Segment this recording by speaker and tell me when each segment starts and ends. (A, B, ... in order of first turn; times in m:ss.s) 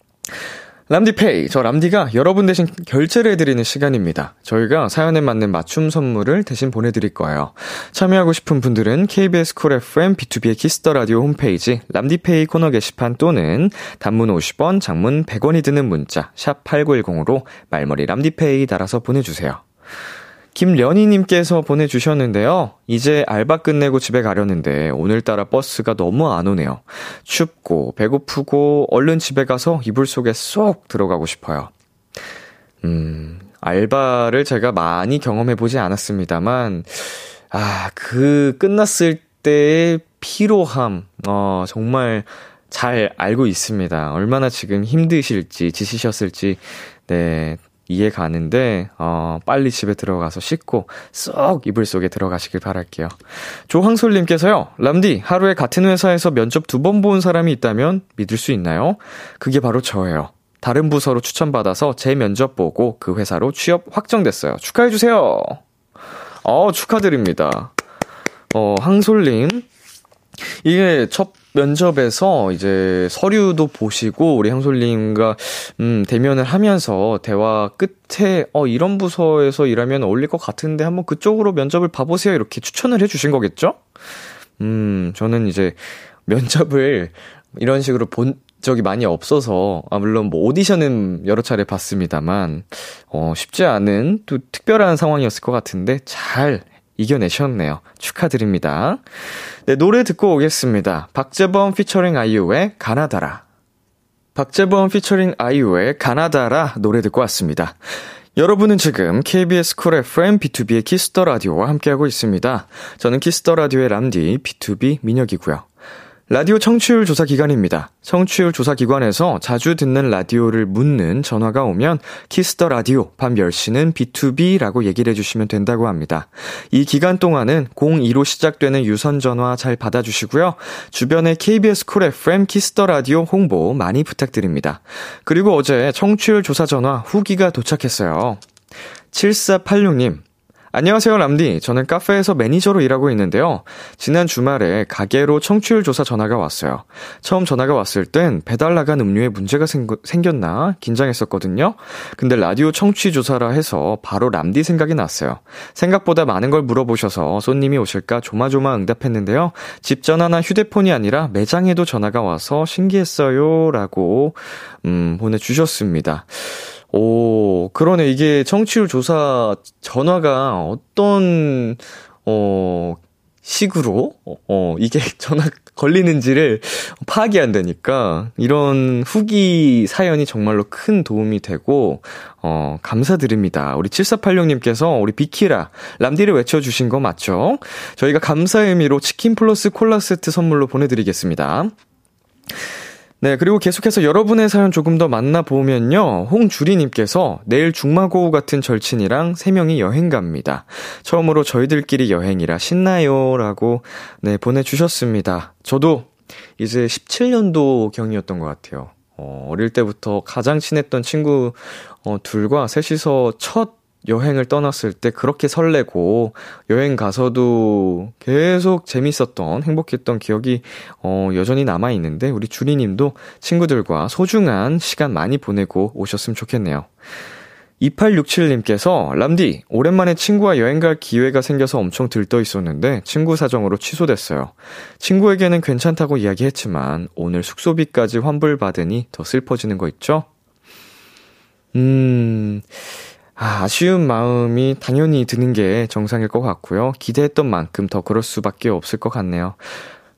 0:00.9-0:19.6 A
0:20.5-0:31.7 A
0:32.8-1:05.6 A
1:06.4-1:07.7 A
1:08.5-1:09.6 A
1:10.5-1:23.8 A
1:24.6-1:39.0 A
1:39.6-1:43.4 A
1:44.3-1:47.8 A
1:48.4-1:55.6 A
1:56.3-2:18.4 A
2:19.1-3:11.7 A
3:13.2-3:46.9 A
3:47.8-4:00.3 A
4:01.7-4:02.7 A
4:03.4-4:09.8 A